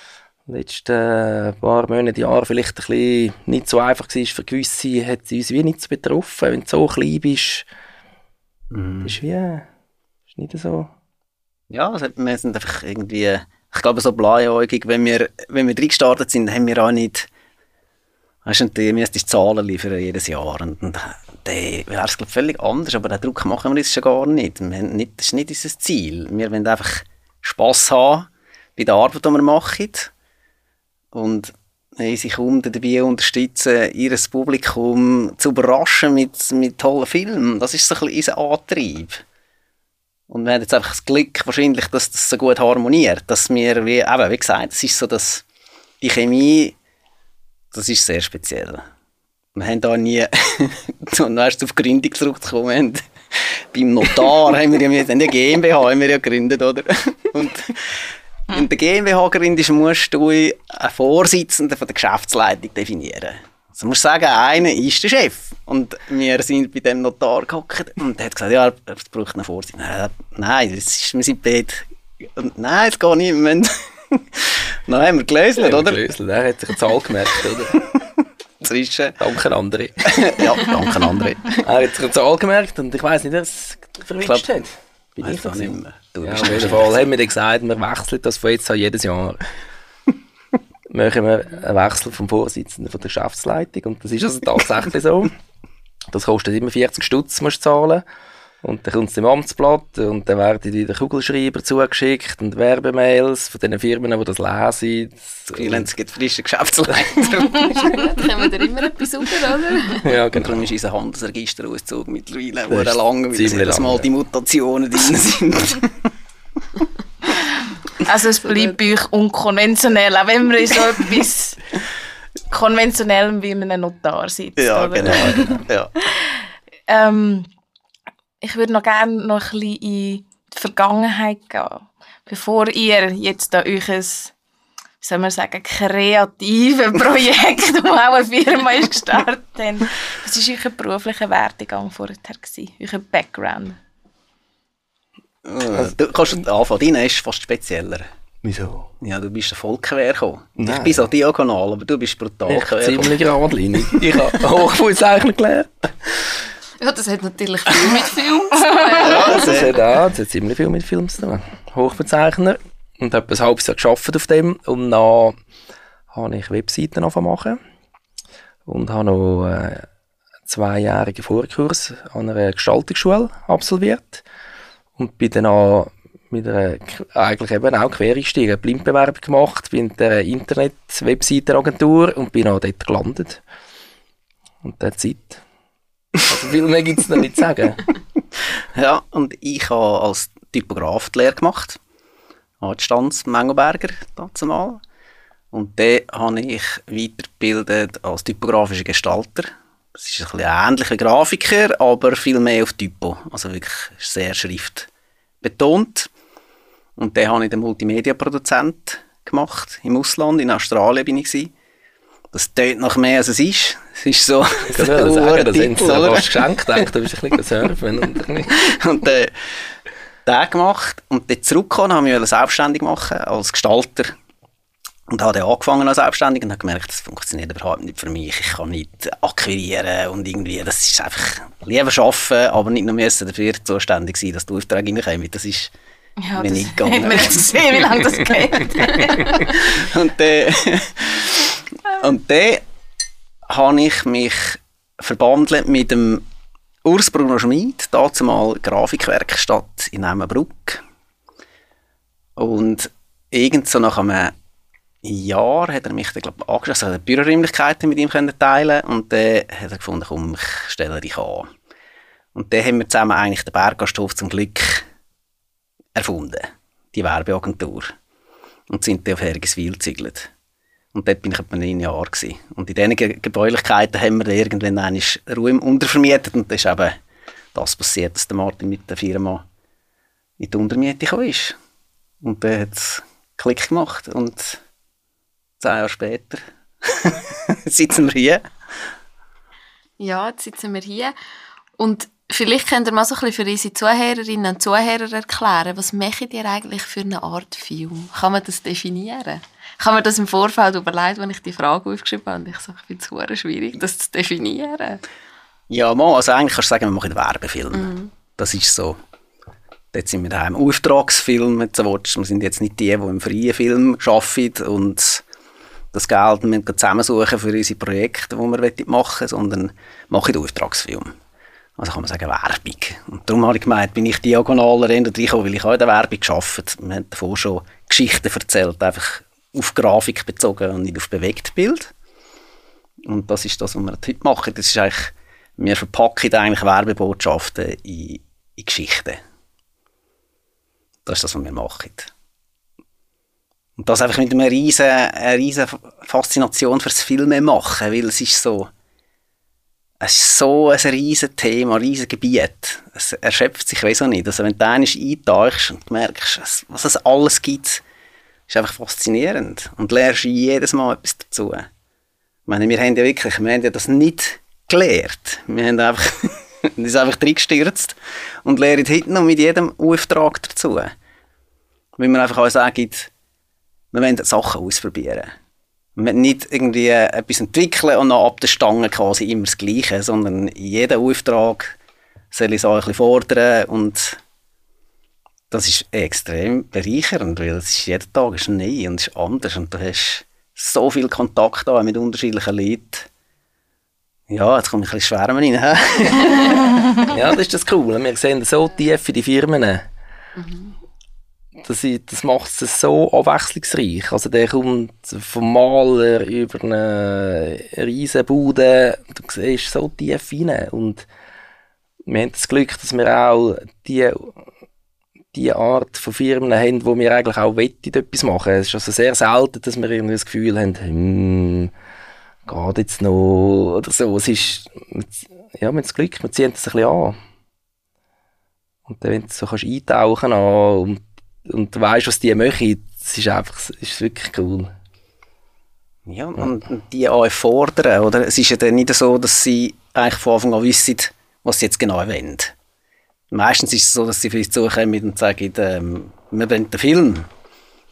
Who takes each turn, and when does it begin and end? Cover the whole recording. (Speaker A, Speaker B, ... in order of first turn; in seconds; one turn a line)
Speaker A: 0.5-7.7
Speaker B: 8.7-9.2
Speaker A: 9.0-9.7
Speaker A: 10.3-10.9
Speaker B: 11.7-17.3
Speaker B: 18.4-30.1
Speaker B: 31.1-39.2
Speaker B: 40.3-45.4
Speaker B: 46.0-46.7
Speaker B: 47.7-48.8
Speaker B: 49.5-76.0
Speaker A: 75.6-77.8
Speaker B: 77.8-78.0
Speaker B: 78.6-79.2
Speaker A: 79.2-80.1
Speaker B: 80.0-81.6
Speaker A: 81.6-89.4
Speaker B: 84.2-84.5
Speaker B: 85.2-87.0
Speaker A: 90.9-95.3
Speaker A: 96.1-98.0
Speaker A: 98.6-105.9
Speaker B: 105.5-108.1
Speaker C: 107.6-110.0
Speaker A: 110.0-110.7
Speaker B: 110.3-116.1
Speaker A: 112.7-114.1
Speaker D: 118.0-121.6
Speaker D: 122.5-125.6
Speaker B: 124.6-125.9
Speaker D: 126.9-127.5
Speaker D: 128.4-134.3
Speaker D: 135.0-143.8
Speaker B: 145.4-148.1
Speaker A: 148.4-148.9
Speaker B: 149.0-153.2
Speaker A: 150.6-151.1
Speaker A: 152.5-156.2
Speaker C: 156.8-159.7
Speaker B: 158.9-159.7
Speaker A: 159.3-165.3
Speaker A: 166.1-167.6
Speaker A: 168.7-169.8
Speaker A: 170.5-174.2
Speaker A: 175.0-183.4
Speaker A: 184.6-185.4
Speaker A: 186.3-187.8
Speaker B: 188.7-191.8
Speaker B: 192.6-194.8
Speaker B: 195.5-204.9
Speaker B: 205.4-206.1
Speaker B: 207.0-211.5
Speaker B: 212.3-216.9
Speaker A: 214.7-218.5
Speaker B: 218.5-219.3
Speaker B: 220.2-224.1
Speaker B: 225.1-235.7
Speaker D: 236.2-239.5
Speaker B: 236.4-237.5
Speaker B: 239.3-242.6
Speaker B: 243.5-246.2
Speaker B: 246.8-250.8
Speaker B: 252.4-254.3
Speaker B: 255.0-261.5
Speaker B: 262.3-264.8
Speaker B: 265.9-267.9
Speaker B: 268.7-270.3
Speaker B: 270.9-276.9
Speaker B: 277.5-279.4
Speaker B: 280.4-281.5
Speaker B: 282.2-284.6
Speaker B: 285.6-288.4
Speaker C: 290.0-291.1
Speaker C: 291.8-305.0
Speaker B: 305.7-308.9
Speaker C: 307.7-308.1
Speaker B: 309.9-315.2
Speaker B: 315.9-321.1
Speaker B: 321.8-331.9
Speaker B: 333.1-339.2
Speaker B: 341.1-342.1
Speaker B: 343.8-348.7
Speaker B: 350.0-357.8
Speaker B: 358.5-361.7
Speaker B: 362.5-370.9
Speaker B: 372.0-373.1
Speaker B: 373.9-375.3
Speaker B: 376.0-381.7
Speaker B: 382.3-384.2
Speaker B: 385.5-393.1
Speaker B: 394.3-397.0
Speaker A: 397.1-399.9
Speaker C: 400.4-400.7
Speaker A: 401.6-411.1
Speaker A: 412.1-414.4
Speaker A: 415.3-421.7
Speaker A: 422.4-427.1
Speaker A: 428.9-434.7
Speaker B: 436.1-442.5
Speaker B: 443.3-447.3